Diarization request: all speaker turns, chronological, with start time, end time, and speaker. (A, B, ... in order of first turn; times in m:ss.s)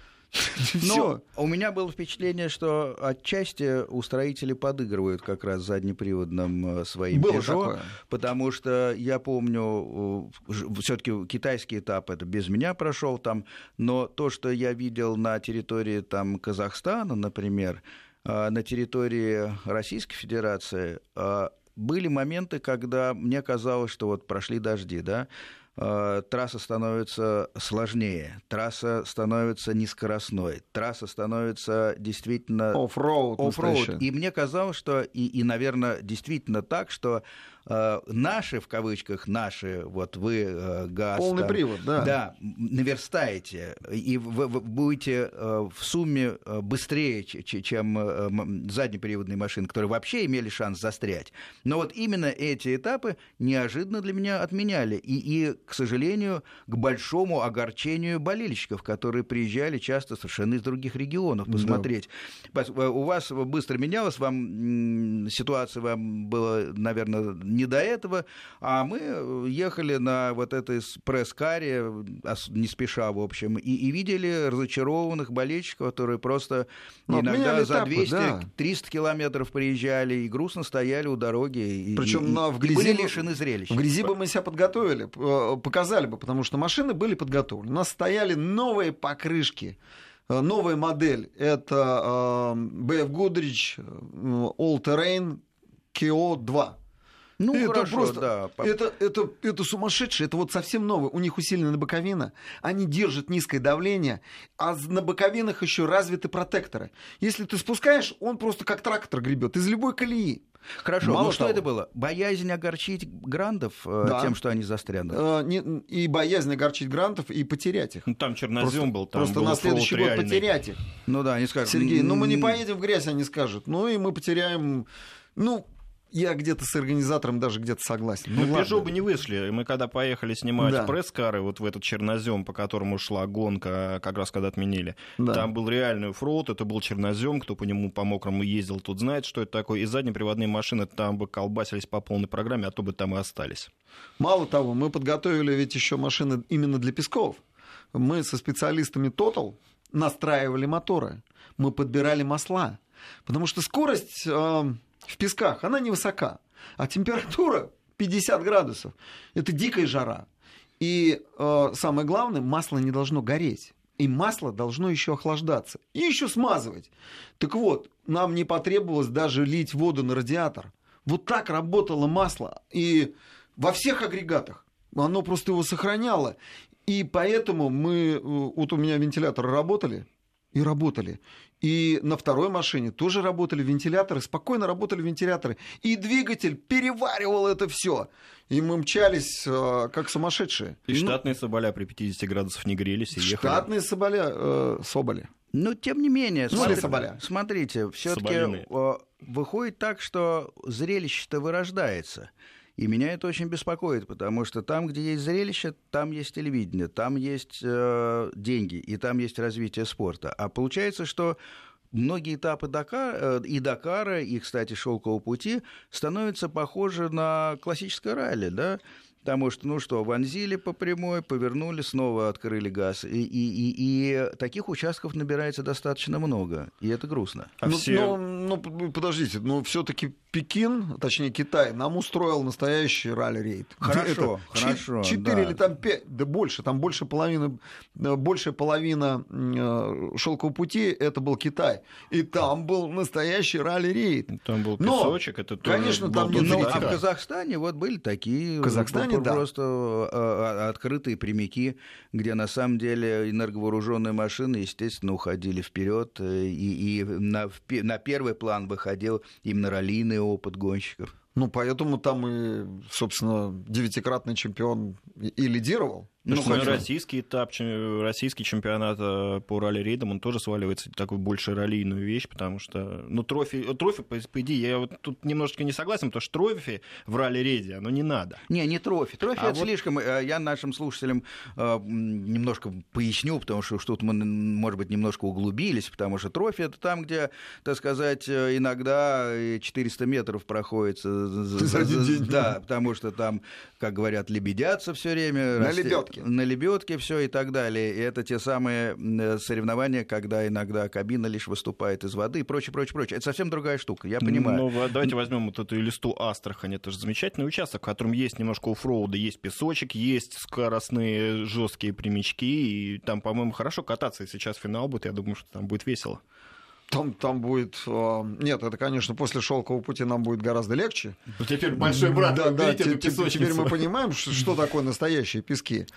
0:00.3-0:01.2 A
0:00.8-0:32.8 B
0:07.1-0:07.9 A
0:32.7-0:34.0 A
0:33.4-1:23.8 B
0:41.2-0:42.1 A
1:01.5-1:01.9 A
1:17.1-1:18.5 A
1:22.0-1:29.8 A
1:30.3-1:36.8 A
1:37.4-1:38.7 B
1:37.5-1:50.4 A
1:50.8-1:55.2 B
1:51.0-1:51.6 A
1:54.0-1:54.4 A
1:55.1-1:58.0 A
1:58.1-2:00.5 C
1:58.6-2:00.8 A
2:01.1-2:02.6 B
2:01.6-2:08.9 A
2:08.3-2:23.7 C
2:10.6-2:11.0 A
2:15.2-2:15.5 A
2:24.2-2:27.4 A
2:27.9-2:40.3 A
2:40.8-3:11.2 A
3:10.9-3:13.6 C
3:13.2-3:15.3 A
3:15.5-3:31.4 B
3:16.5-3:17.2 A
3:16.5-3:16.9 C
3:18.1-3:18.7 C
3:31.9-3:47.5 B
3:47.6-3:48.2 C
3:47.6-4:07.0 A
3:53.8-3:55.6 B
4:04.3-4:07.0 C
4:06.3-4:21.1 B
4:08.6-4:09.4 A
4:21.3-4:26.8 A
4:26.2-4:26.8 B
4:26.3-4:38.4 C
4:38.5-5:04.6 B
4:51.6-4:52.5 A
4:55.6-4:56.2 A
5:04.2-5:16.2 C
5:16.9-5:21.2 A
5:21.4-5:23.8 C
5:21.8-5:25.9 A